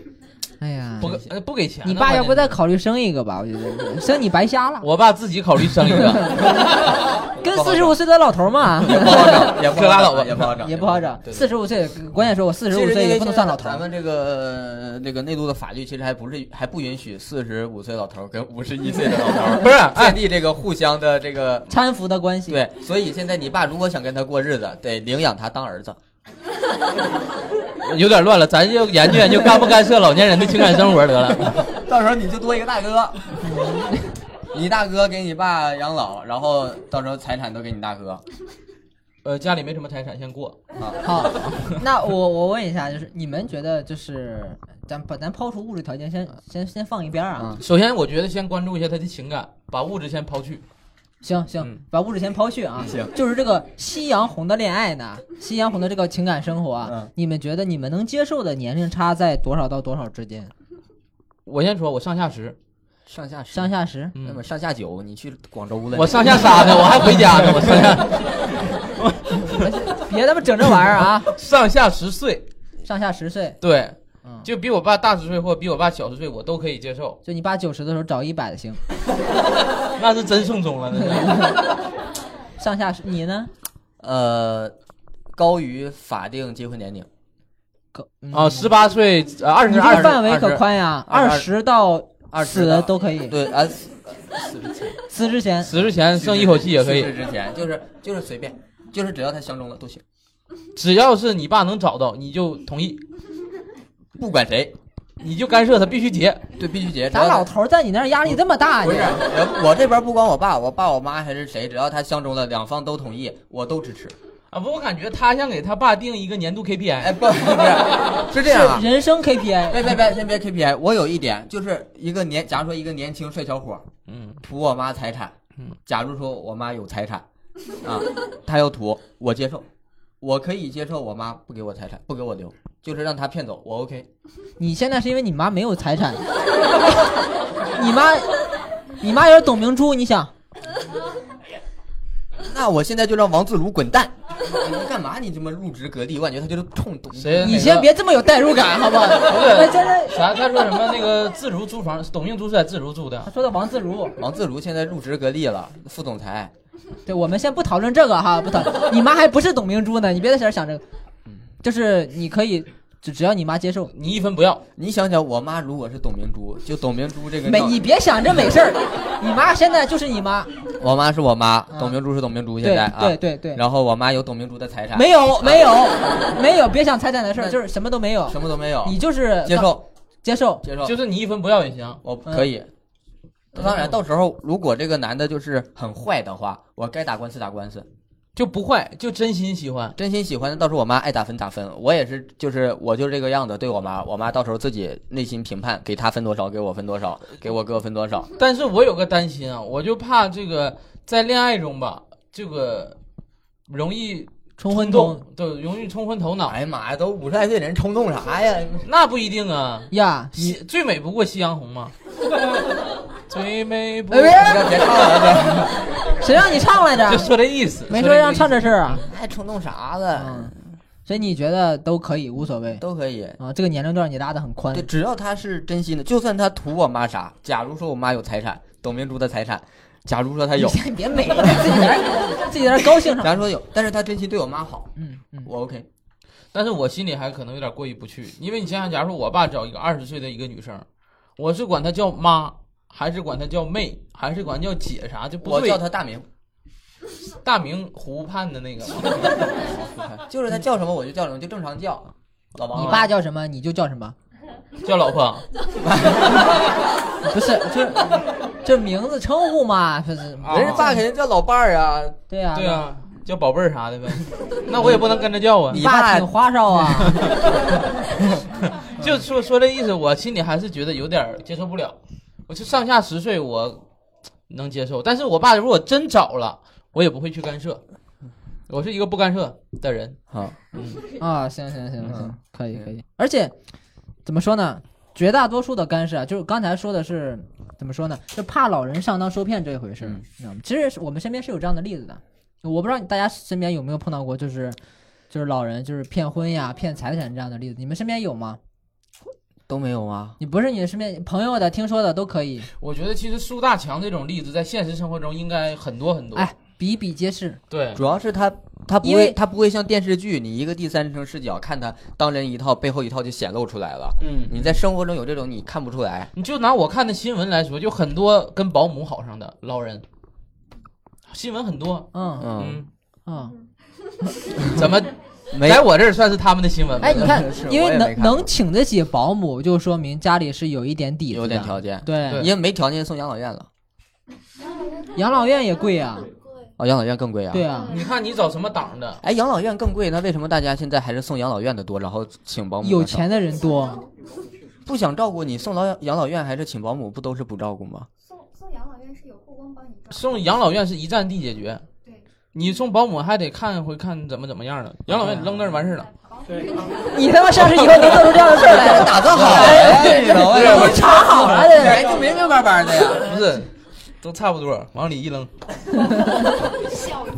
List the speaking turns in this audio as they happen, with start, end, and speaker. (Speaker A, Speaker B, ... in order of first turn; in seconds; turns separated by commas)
Speaker A: 0.6-1.2, Speaker B: 1.0-2.5, Speaker A: 1.8-4.9, Speaker B: 4.8-6.5, Speaker A: 6.0-6.5, Speaker A: 7.4-9.5, Speaker C: 7.4-8.0, Speaker C: 8.8-11.4, Speaker B: 9.4-10.8, Speaker A: 10.6-13.8, Speaker C: 12.7-21.7, Speaker B: 19.5-20.2, Speaker A: 21.7-22.6, Speaker C: 22.5-26.0, Speaker B: 27.8-31.7, Speaker C: 31.5-33.4, Speaker A: 33.4-34.1, Speaker C: 34.5-38.2, Speaker B: 39.2-40.6, Speaker C: 40.8-41.2, Speaker A: 41.0-47.5, Speaker C: 47.4-47.6, Speaker B: 47.6-50.6, Speaker A: 51.2-60.5, Speaker C: 52.8-53.1, Speaker C: 56.8-57.1, Speaker B: 61.5-62.6, Speaker C: 63.1-67.8, Speaker A: 63.5-64.1, Speaker B: 64.2-64.4, Speaker B: 65.9-69.7, Speaker A: 69.5-71.3, Speaker B: 71.2-72.5, Speaker A: 72.8-73.6, Speaker B: 73.6-77.2, Speaker A: 77.2-78.8, Speaker B: 80.0-81.5, Speaker A: 81.1-81.5, Speaker A: 82.6-83.5, Speaker C: 84.0-84.7, Speaker C: 85.3-87.1, Speaker A: 87.9-88.7, Speaker B: 88.3-90.2, Speaker A: 89.7-93.3, Speaker C: 89.8-91.5, Speaker C: 92.3-95.0, Speaker A: 95.1-95.7, Speaker B: 95.6-97.1, Speaker C: 96.1-100.0, Speaker B: 100.8-103.0, Speaker C: 104.1-104.7, Speaker B: 105.2-106.5, Speaker C: 106.6-107.5, Speaker A: 107.1-109.2, Speaker C: 108.8-114.1, Speaker B: 114.5-117.2, Speaker C: 117.0-118.9, Speaker A: 118.3-119.9, Speaker C: 119.7-123.9, Speaker B: 124.1-124.4, Speaker C: 124.4-125.3, Speaker C: 125.9-127.2, Speaker C: 127.8-129.7, Speaker C: 130.2-134.1, Speaker A: 134.6-136.2, Speaker A: 137.7-138.3, Speaker A: 139.0-140.3, Speaker C: 142.4-147.6, Speaker B: 147.2-147.9, Speaker A: 147.4-150.2, Speaker B: 149.2-153.3, Speaker A: 153.2-154.2, Speaker C: 154.2-156.5, Speaker A: 157.1-160.8, Speaker A: 161.6-163.9, Speaker B: 163.9-164.6, Speaker C: 164.8-167.8, Speaker A: 167.4-170.5, Speaker C: 170.8-175.9, Speaker A: 171.7-172.0, Speaker A: 172.6-173.6, Speaker A: 174.9-180.6, Speaker C: 178.3-179.8, Speaker C: 180.6-180.9, Speaker B: 180.8-182.0, Speaker C: 182.0-182.7, Speaker C: 183.5-187.9, Speaker B: 188.3-189.9, Speaker C: 189.9-198.3, Speaker B: 198.4-203.0, Speaker B: 203.7-206.6, Speaker A: 204.6-205.2, Speaker C: 206.5-208.9, Speaker B: 208.8-211.9, Speaker A: 209.9-210.4, Speaker B: 213.3-214.6, Speaker A: 214.1-214.7, Speaker C: 214.3-215.9, Speaker A: 216.2-217.3, Speaker B: 217.1-219.0, Speaker A: 217.9-219.0, Speaker C: 218.9-220.6, Speaker A: 220.2-220.5, Speaker A: 221.1-222.8, Speaker C: 222.8-223.4, Speaker A: 223.4-224.9, Speaker C: 224.7-230.8, Speaker A: 230.6-233.4, Speaker C: 233.0-234.9, Speaker A: 234.9-235.5, Speaker C: 235.4-235.9, Speaker B: 236.5-240.8, Speaker B: 241.4-245.8, Speaker C: 245.4-246.2, Speaker B: 247.4-249.3, Speaker C: 249.6-253.1, Speaker A: 252.7-254.1, Speaker B: 254.8-255.4, Speaker C: 255.8-256.6, Speaker A: 257.2-261.0, Speaker B: 260.4-260.9, Speaker C: 260.5-262.2, Speaker A: 262.3-262.9, Speaker B: 262.5-265.8, Speaker C: 264.7-265.1, Speaker C: 265.7-266.3, Speaker A: 265.7-267.2, Speaker B: 267.2-267.4, Speaker B: 268.8-272.0, Speaker B: 272.5-273.8, Speaker B: 274.5-277.8, Speaker B: 278.7-280.2, Speaker C: 280.3-280.6, Speaker B: 280.7-281.0, Speaker A: 281.2-283.5, Speaker C: 282.0-282.9, Speaker A: 284.2-294.8, Speaker A: 295.3-298.6, Speaker C: 299.7-300.4, Speaker A: 300.4-302.7, Speaker B: 302.8-306.5, Speaker A: 306.3-307.6, Speaker B: 307.7-308.0, Speaker C: 307.9-316.3, Speaker A: 309.0-309.4, Speaker B: 314.2-314.6, Speaker B: 316.4-320.0, Speaker B: 321.3-322.9, Speaker A: 322.1-322.5, Speaker C: 322.4-322.8, Speaker A: 323.3-323.5, Speaker B: 324.7-327.4, Speaker C: 325.5-325.9, Speaker C: 327.0-328.5, Speaker A: 327.0-332.5, Speaker C: 331.3-333.7, Speaker D: 334.8-336.6, Speaker A: 335.1-336.3, Speaker C: 336.8-337.7, Speaker A: 337.5-337.9, Speaker D: 337.7-338.1, Speaker B: 337.9-339.2, Speaker C: 339.2-343.2, Speaker A: 342.8-344.0, Speaker C: 344.9-348.1, Speaker D: 348.2-350.3, Speaker B: 350.1-351.8, Speaker B: 352.5-356.1, Speaker D: 356.0-357.2, Speaker A: 357.0-362.1, Speaker B: 357.8-358.4, Speaker C: 358.3-363.3, Speaker B: 359.1-361.6, Speaker B: 363.2-363.7, Speaker B: 364.2-365.5, Speaker A: 365.9-366.6